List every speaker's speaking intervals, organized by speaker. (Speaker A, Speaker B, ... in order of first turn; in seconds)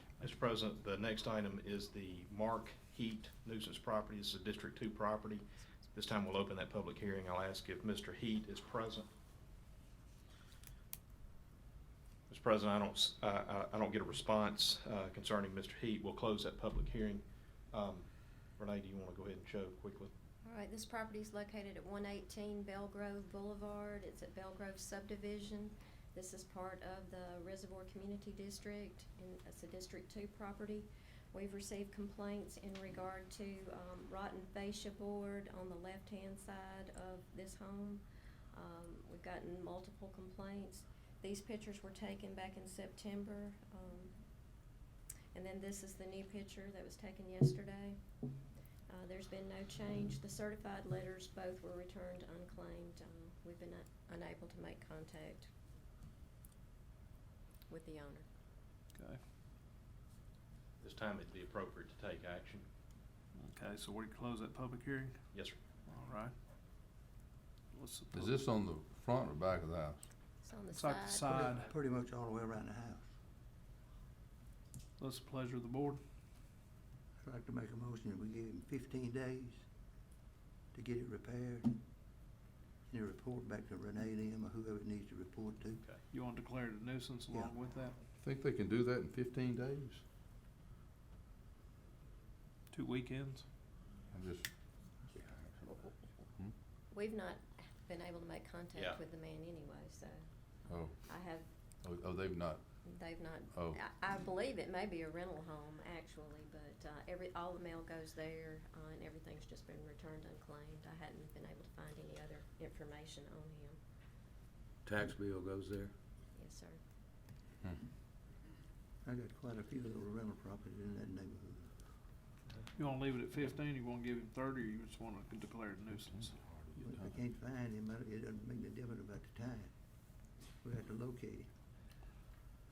Speaker A: 0.2-9.1, 12.3-18.1, 18.6-20.1, 60.8-62.7, 65.3-65.6, 98.7-99.0
Speaker B: 20.4-38.0, 38.5-44.1, 45.3-48.0, 48.9-55.5, 57.7-58.2, 70.4-71.3, 96.9-100.2, 101.0-101.4, 102.8-113.8, 116.3-116.8
Speaker C: 58.9-59.2, 63.3-65.2, 65.9-66.3, 67.7-68.4, 70.7-71.7, 75.0-76.0, 86.1-88.0, 92.7-93.5, 122.7-126.4
Speaker D: 68.1-70.0, 88.2-90.0, 94.1-94.5, 95.1-96.5, 100.7-100.9, 101.8-102.6, 103.5-103.8, 114.8-115.9, 126.5-127.0
Speaker E: 71.2-73.0, 77.2-79.6, 80.7-81.8, 82.9-85.8, 119.0-121.7, 126.8-129.7, 130.6-131.5